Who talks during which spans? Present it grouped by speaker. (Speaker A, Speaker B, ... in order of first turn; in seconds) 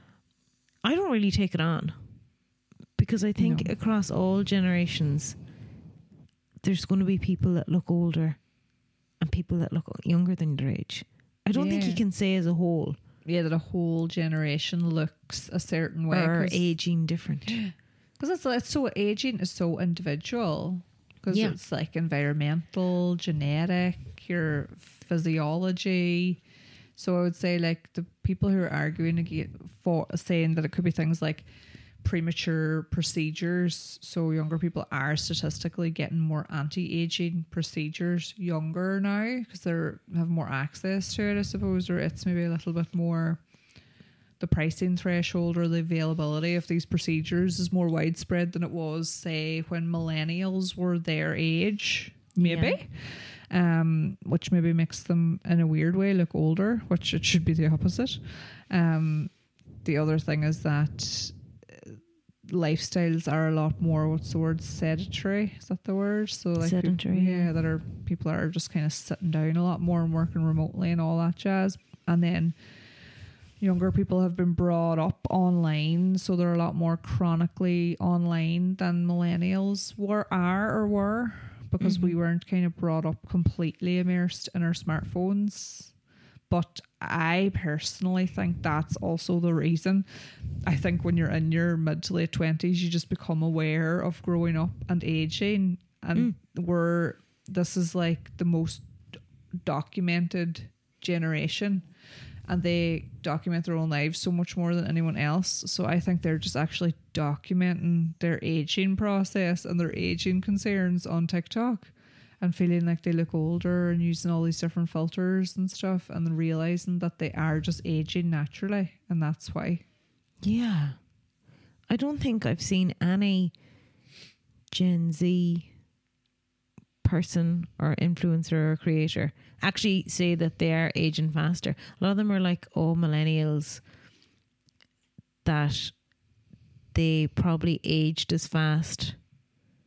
Speaker A: 0.8-2.0, 3.0-5.3, 6.6-8.4, 9.2-13.0, 16.1-17.6, 21.3-21.6, 52.4-52.8, 66.6-67.5, 81.8-82.2, 120.4-121.0, 121.9-123.5, 124.7-125.7, 127.0-133.8, 135.4-135.9, 136.9-139.2
Speaker B: 3.4-3.7, 11.5-12.0, 13.2-16.6, 17.5-26.4, 27.0-31.5, 32.0-43.4, 44.4-59.3, 59.8-72.5, 73.6-85.9, 86.5-90.1, 90.6-98.9, 99.6-101.8, 102.5-119.8